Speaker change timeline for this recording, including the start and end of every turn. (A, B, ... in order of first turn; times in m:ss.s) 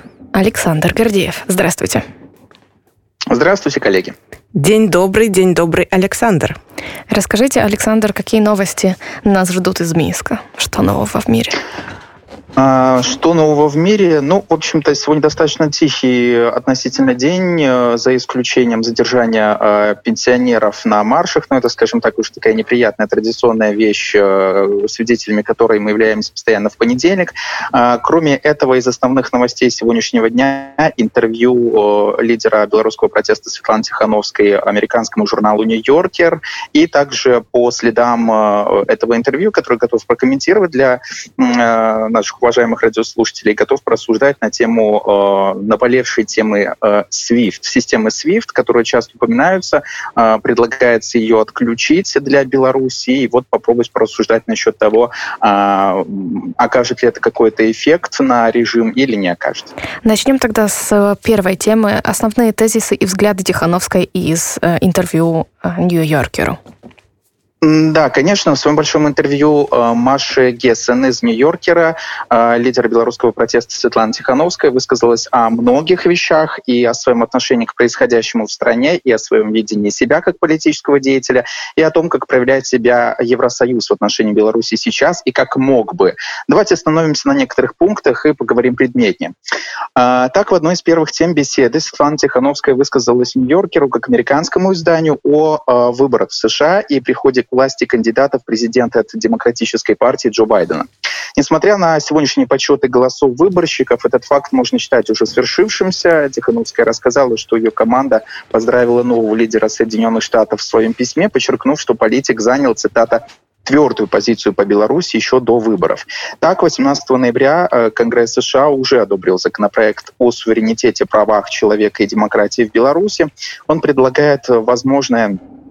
0:00.3-0:02.0 A
0:03.3-0:04.1 B
0:04.6-0:06.6 C
0:07.1-0:11.6 A
0:12.6-0:59.7 B
1:00.0-1:06.6 A
1:07.6-1:29.3 B
1:30.0-2:05.4 B